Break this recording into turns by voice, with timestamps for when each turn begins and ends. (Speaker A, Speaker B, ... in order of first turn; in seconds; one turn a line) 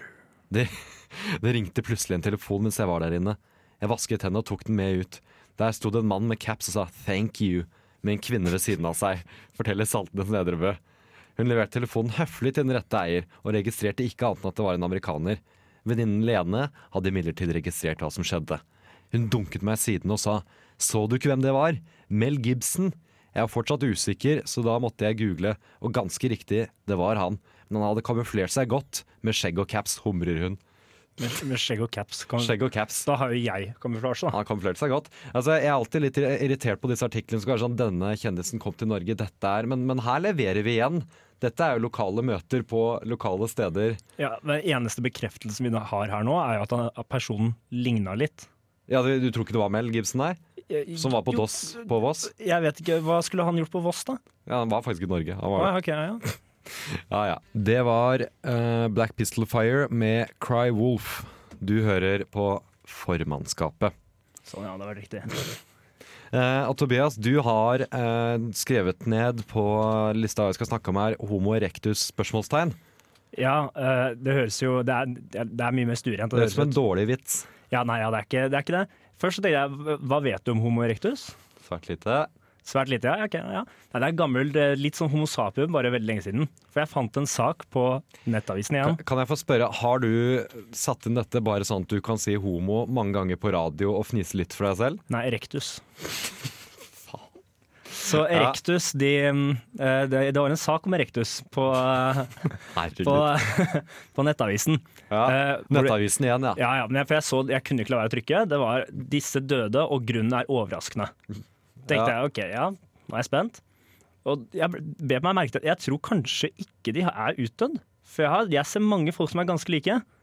Speaker A: 0.5-10.8
Speaker A: 11.4-30.6
Speaker B: 31.2-34.4
Speaker A: 32.4-33.1
Speaker A: 34.3-44.0
Speaker B: 44.2-48.5
Speaker A: 48.9-50.4
Speaker B: 50.7-54.2
Speaker A: 50.9-52.3
Speaker A: 54.5-55.8
Speaker B: 55.6-56.3
Speaker A: 56.7-63.9
Speaker B: 64.5-65.4
Speaker A: 66.3-72.8
Speaker B: 73.3-76.8
Speaker A: 76.3-77.5
Speaker B: 77.7-81.3
Speaker A: 81.6-82.3
Speaker B: 82.6-89.0
Speaker A: 88.8-95.0
Speaker B: 95.1-95.8
Speaker B: 98.0-106.0
Speaker A: 98.0-98.6
Speaker A: 102.7-103.4
Speaker A: 105.1-106.6
Speaker B: 106.5-111.1
Speaker A: 111.9-112.2
Speaker B: 111.9-113.6
Speaker B: 114.2-120.0